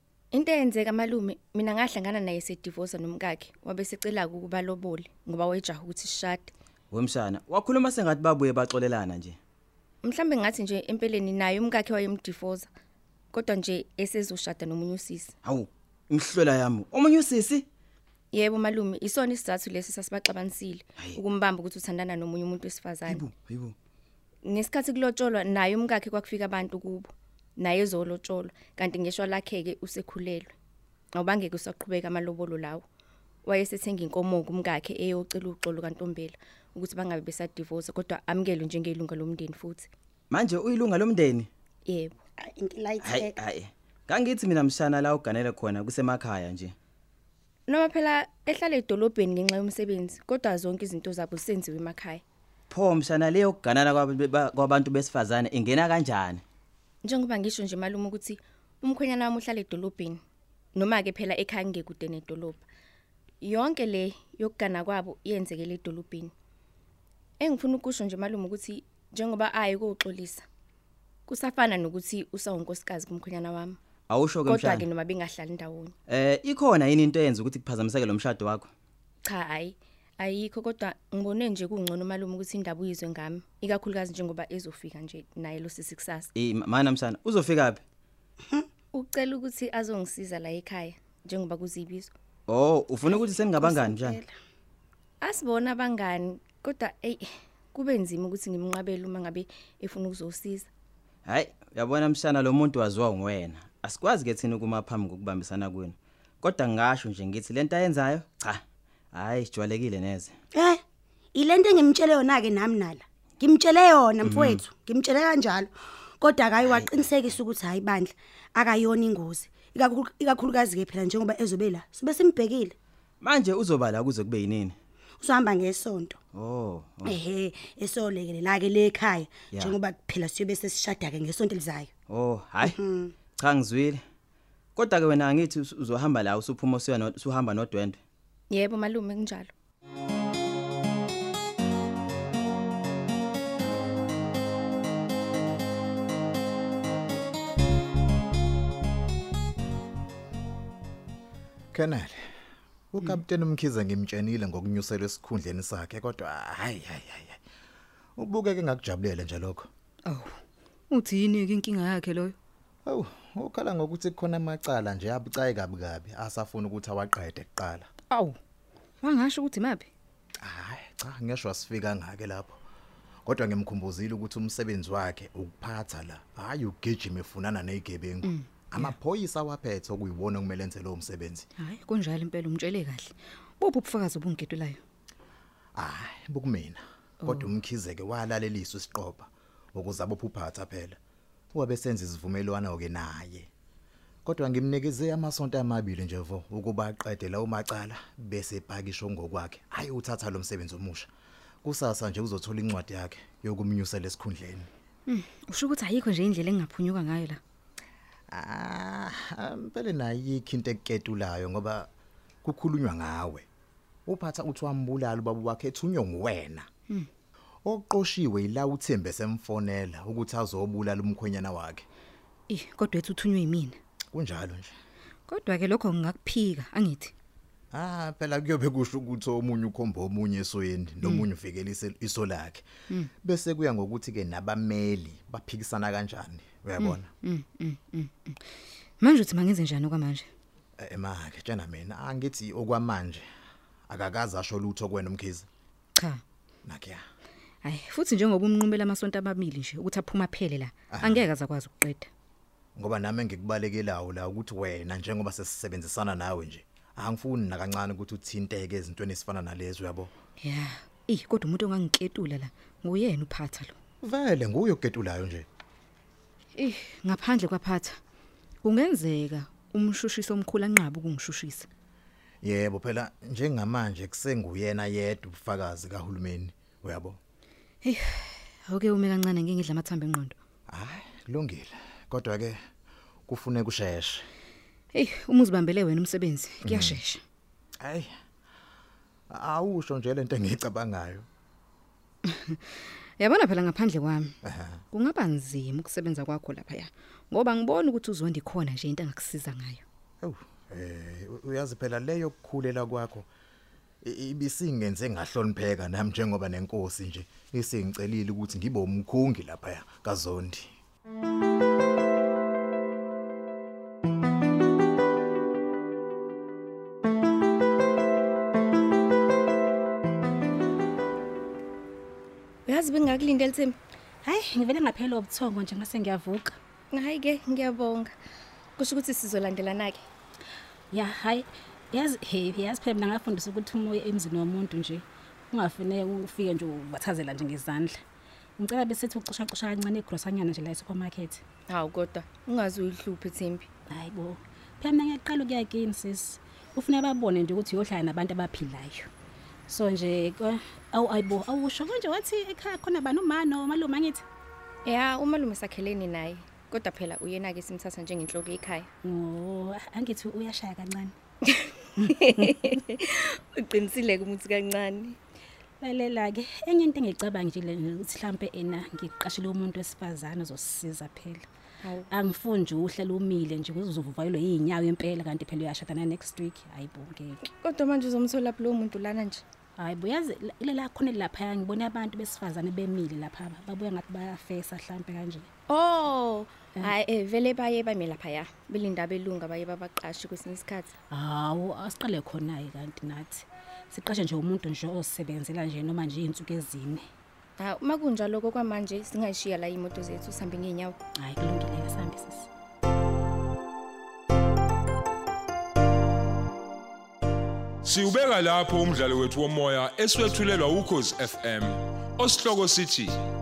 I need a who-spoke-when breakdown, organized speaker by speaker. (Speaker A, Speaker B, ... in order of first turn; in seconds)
Speaker A: 0.3-6.5, 10.0-12.7, 13.3-15.3, 18.3-23.3, 24.5-30.5, 31.1-32.8, 33.5-39.9, 41.9-42.1, 47.7-52.2, 57.0-60.2, 60.8-62.6, 63.4-66.3, 67.4-70.4, 71.3-73.8, 74.5-75.9, 79.2-86.3, 88.9-92.1, 95.2-100.7, 138.5-139.5, 322.7-323.8, 326.9-328.1, 328.8-330.1, 341.7-343.7, 354.9-358.9, 361.4-365.2, 377.4-379.4, 385.7-390.9, 397.6-401.0
Speaker B: 6.9-9.4, 15.4-17.7, 23.1-23.7, 40.3-41.5, 43.0-46.8, 52.7-56.4, 74.1-74.9, 76.1-78.7, 86.3-87.8, 92.5-94.2, 101.3-108.6, 109.1-110.3, 114.2-114.7, 116.6-117.4, 123.2-124.8, 126.3-127.2, 129.5-129.8, 132.1-132.8, 133.4-134.0, 134.8-138.0
Speaker C: 42.5-43.3, 111.3-115.7, 116.2-122.8, 125.2-126.2, 127.1-131.9
Speaker D: 151.7-152.2, 152.9-157.4, 158.2-159.7, 162.9-167.9, 170.4-172.6, 173.3-181.5, 185.8-191.0, 191.5-193.5, 194.2-201.1, 201.6-204.7, 208.3-211.9, 212.4-213.5, 214.1-216.7, 217.7-221.9, 224.1-224.7, 227.7-232.7, 233.2-237.1, 240.8-243.3, 243.9-245.5, 246.7-247.0, 250.9-251.3, 252.8-260.1, 264.0-265.5, 272.4-277.2, 280.7-282.6, 283.3-284.3, 286.6-287.0, 287.8-288.1, 289.3-291.3, 294.4-294.8, 300.2-303.3, 304.0-310.7
Speaker E: 160.1-160.3, 160.9-162.3, 168.1-168.4, 169.0-169.9, 178.2-178.9, 181.6-184.8, 187.2-187.5, 205.1-207.4, 222.5-223.8, 225.3-227.1, 236.8-238.3, 239.0-240.3, 247.6-252.1, 260.4-263.8, 266.6-268.0, 268.6-271.7, 278.7-280.4, 284.9-287.2, 292.3-292.6, 293.2-294.4, 294.9-299.8
Speaker F: 324.2-326.6, 330.9-338.0, 338.6-341.4, 343.9-349.1, 349.7-354.2, 359.0-361.1, 365.8-371.4, 372.1-377.4, 379.8-385.5, 391.1-397.0, 401.2-402.5
Speaker G: 407.8-413.2